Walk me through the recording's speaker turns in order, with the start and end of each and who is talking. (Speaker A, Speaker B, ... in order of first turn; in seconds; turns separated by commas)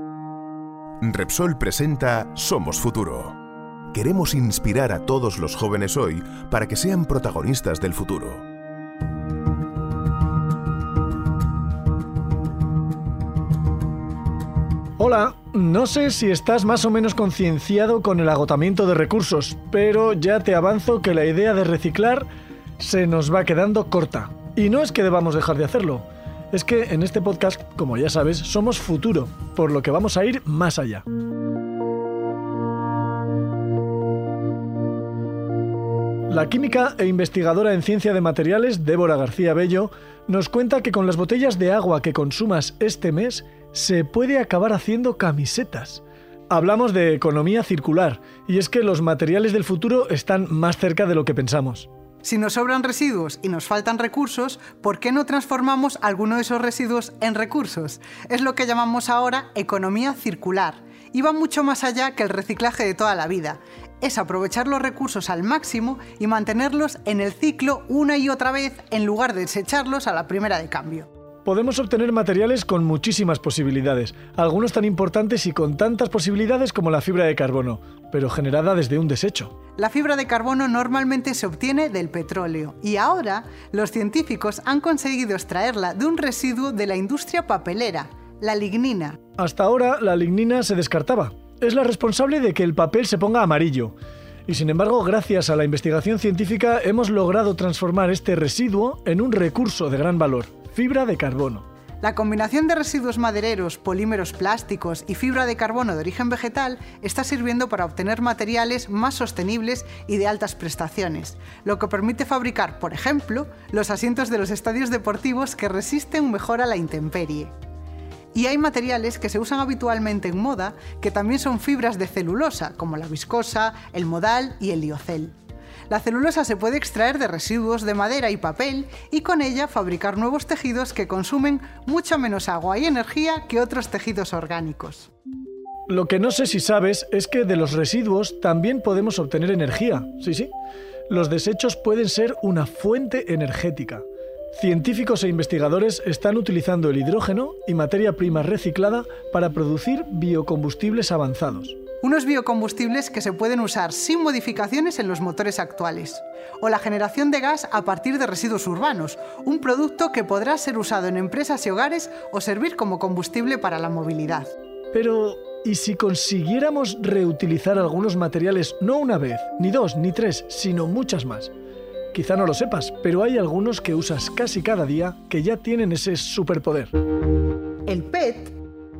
Speaker A: 1.0-3.4, Speaker A: 3.9-8.4, Speaker B: 15.0-22.2, Speaker B: 22.8-31.0, Speaker B: 36.3-51.9, Speaker C: 52.2-71.1, Speaker B: 71.5-79.5, Speaker C: 79.8-89.2, Speaker B: 89.4-93.9, Speaker B: 94.5-101.6, Speaker C: 102.0-117.5, Speaker C: 118.3-125.3, Speaker C: 125.9-135.1, Speaker B: 135.9-140.5, Speaker B: 141.1-144.0, Speaker B: 144.5-151.8, Speaker C: 152.0-164.5, Speaker B: 164.9-171.5, Speaker B: 172.1-176.9, Speaker C: 177.9-178.5